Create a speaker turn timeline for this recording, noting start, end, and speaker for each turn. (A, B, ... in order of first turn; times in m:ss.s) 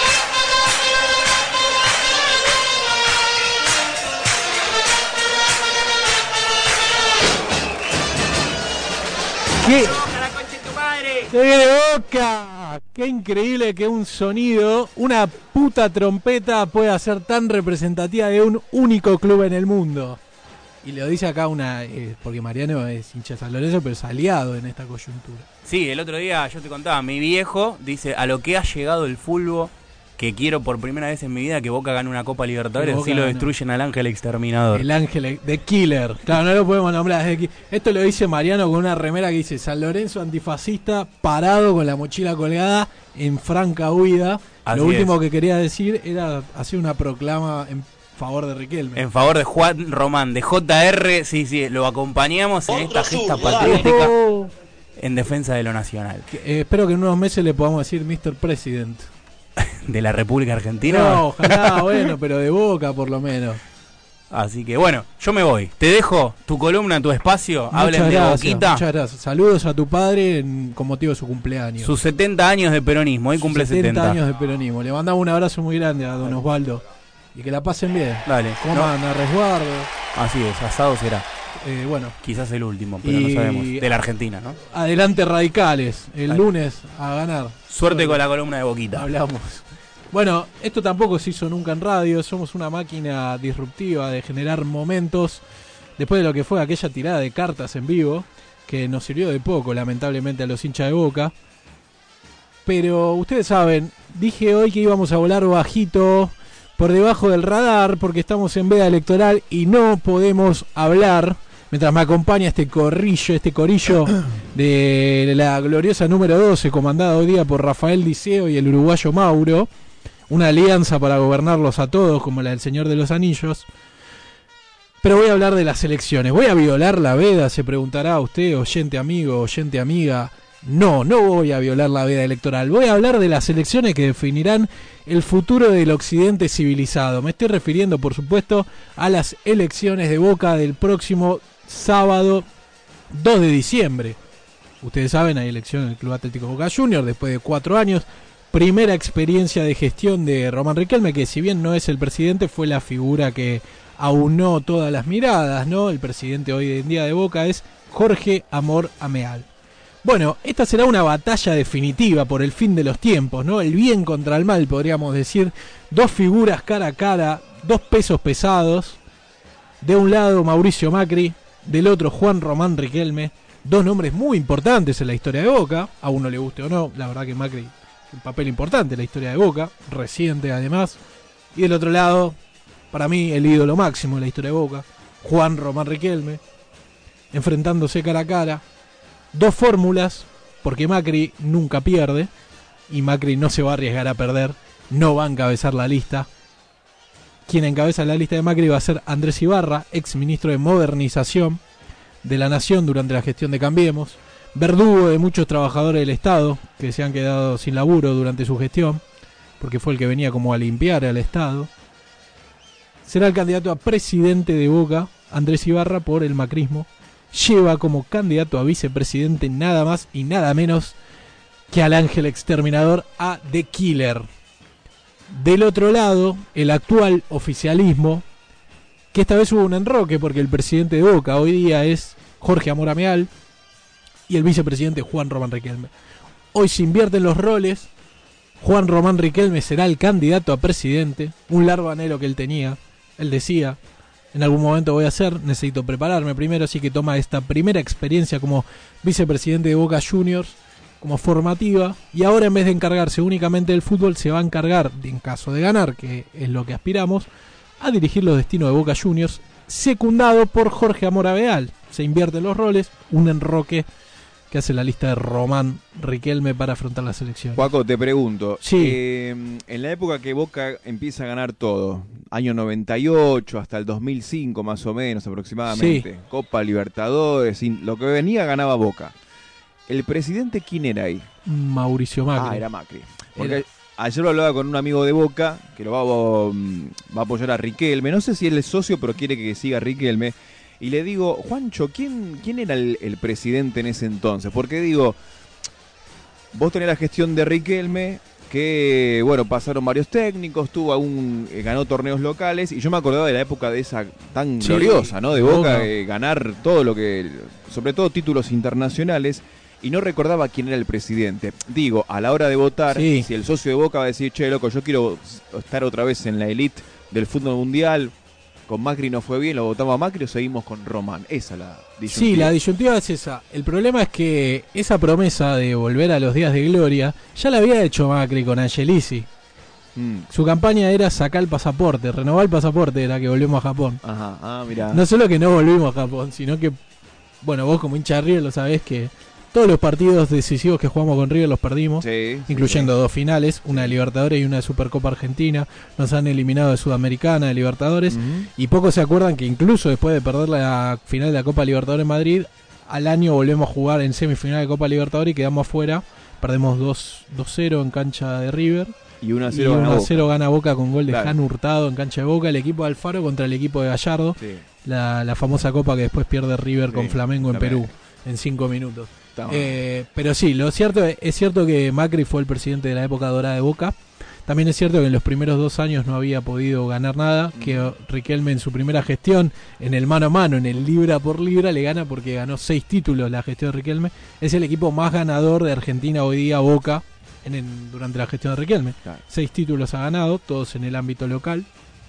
0:09.6-0:10.1 A
0:09.8-0:11.3 B
0:11.3-0:20.2 A
0:20.8-0:25.5 A
0:25.6-0:34.9 B
0:32.8-0:33.5 A
0:34.7-0:49.0 A
0:44.7-0:45.2 B
0:49.0-0:54.2 B
0:53.5-0:54.5 A
0:55.0-0:56.3 B
0:56.3-0:59.1 A
0:59.6-1:02.1 B
1:00.8-1:03.6 A
1:04.3-1:08.8 B
1:07.7-1:11.9 A
1:11.8-1:14.2 B
1:13.4-1:16.8 A
1:17.3-1:19.9 A
1:18.3-1:18.9 B
1:20.1-1:21.2 B
1:21.6-1:22.2 A
1:22.2-1:24.6 B
1:23.0-1:23.9 A
1:24.6-1:28.2 A
1:27.7-1:29.1 B
1:28.9-1:35.4 A
1:36.0-1:41.3 A
1:42.7-1:59.7 A
2:00.3-2:03.7 A
2:05.0-2:22.5 A
2:23.1-2:24.2 A
2:24.8-2:39.5 A
2:40.0-2:49.0 A
2:49.8-3:01.0 A
3:01.5-3:02.4 A
3:02.9-3:06.4 A
3:07.3-3:08.6 A
3:09.3-3:12.3 A
3:12.9-3:16.3 A
3:17.5-3:21.6 A
3:22.2-3:29.0 A
3:29.6-3:31.7 A
3:33.0-3:41.0 A
3:41.7-3:44.3 A
3:45.3-3:48.2 A
3:49.1-3:53.3 A
3:54.3-3:55.9 A
3:56.5-3:57.9 A
3:58.6-4:03.8 A
4:04.3-4:17.3 A
4:17.8-4:23.9 A
4:24.5-4:27.7 A
4:27.6-4:39.2 C
4:28.6-4:29.0 A
4:35.7-4:36.1 A
4:39.9-4:41.3 C
4:41.5-4:42.6 A
4:42.4-4:55.2 C
4:43.4-4:43.6 A
4:56.5-5:18.1 C
5:04.6-5:05.9 A
5:12.9-5:13.3 A
5:18.7-5:22.5 C
5:22.1-5:29.3 A
5:30.0-5:30.3 C
5:30.3-5:34.0 A
5:34.0-5:35.0 C
5:34.9-5:36.8 A
5:37.4-5:58.9 A
5:42.0-5:42.9 C
5:48.1-5:48.5 C
5:59.2-6:00.3 C
5:59.5-6:31.7 A
6:01.1-6:01.4 C
6:04.4-6:04.6 C
6:06.9-6:07.9 C
6:09.4-6:09.8 C
6:17.5-6:17.9 C